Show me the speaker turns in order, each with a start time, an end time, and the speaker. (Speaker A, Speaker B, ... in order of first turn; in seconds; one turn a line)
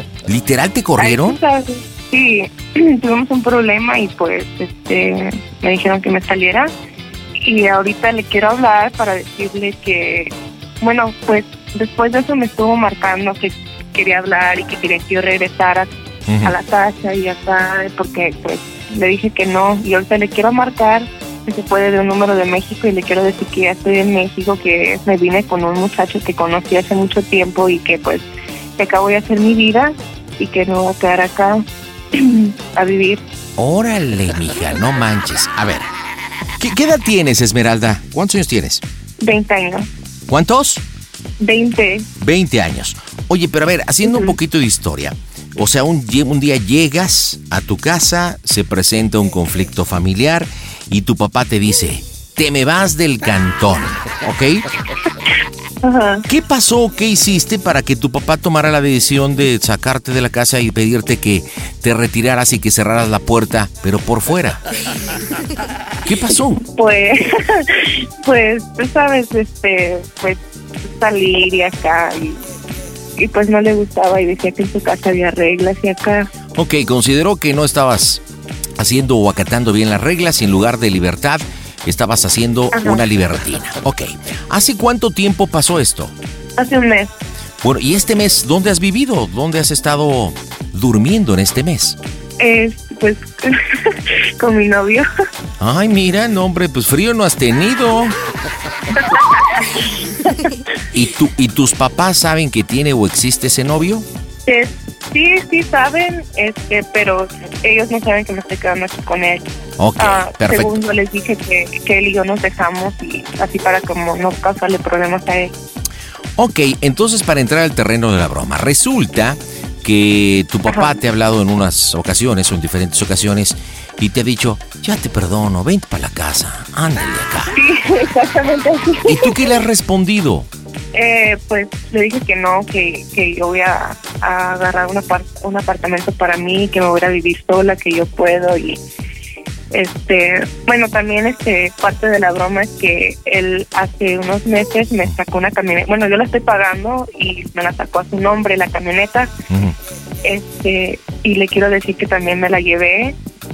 Speaker A: 0.3-1.4
Speaker B: 1.0-6.7
Speaker B: 7.4-15.9
Speaker A: 16.3-16.6
Speaker B: 16.4-28.3
Speaker B: 28.8-33.2
Speaker A: 33.6-35.9
Speaker A: 36.6-38.8
Speaker B: 39.2-39.9
Speaker A: 40.3-40.8
Speaker B: 41.4-42.1
Speaker A: 42.2-54.6
Speaker B: 44.0-44.4
Speaker B: 55.8-56.2
Speaker A: 56.3-64.6
Speaker A: 66.1-66.6
Speaker B: 66.8-72.4
Speaker B: 73.2-76.3
Speaker A: 76.5-78.2
Speaker A: 78.8-86.1
Speaker B: 82.7-83.0
Speaker B: 86.6-87.1
Speaker A: 87.6-92.0
Speaker B: 92.4-95.1
Speaker A: 95.6-98.2
Speaker A: 100.9-104.0
Speaker B: 104.5-115.5
Speaker A: 109.8-110.8
Speaker A: 116.4-127.5
Speaker B: 120.7-121.0
Speaker B: 127.5-129.5
Speaker A: 129.1-130.5
Speaker B: 130.9-138.8
Speaker B: 139.7-149.3
Speaker A: 149.5-149.8
Speaker B: 150.2-153.2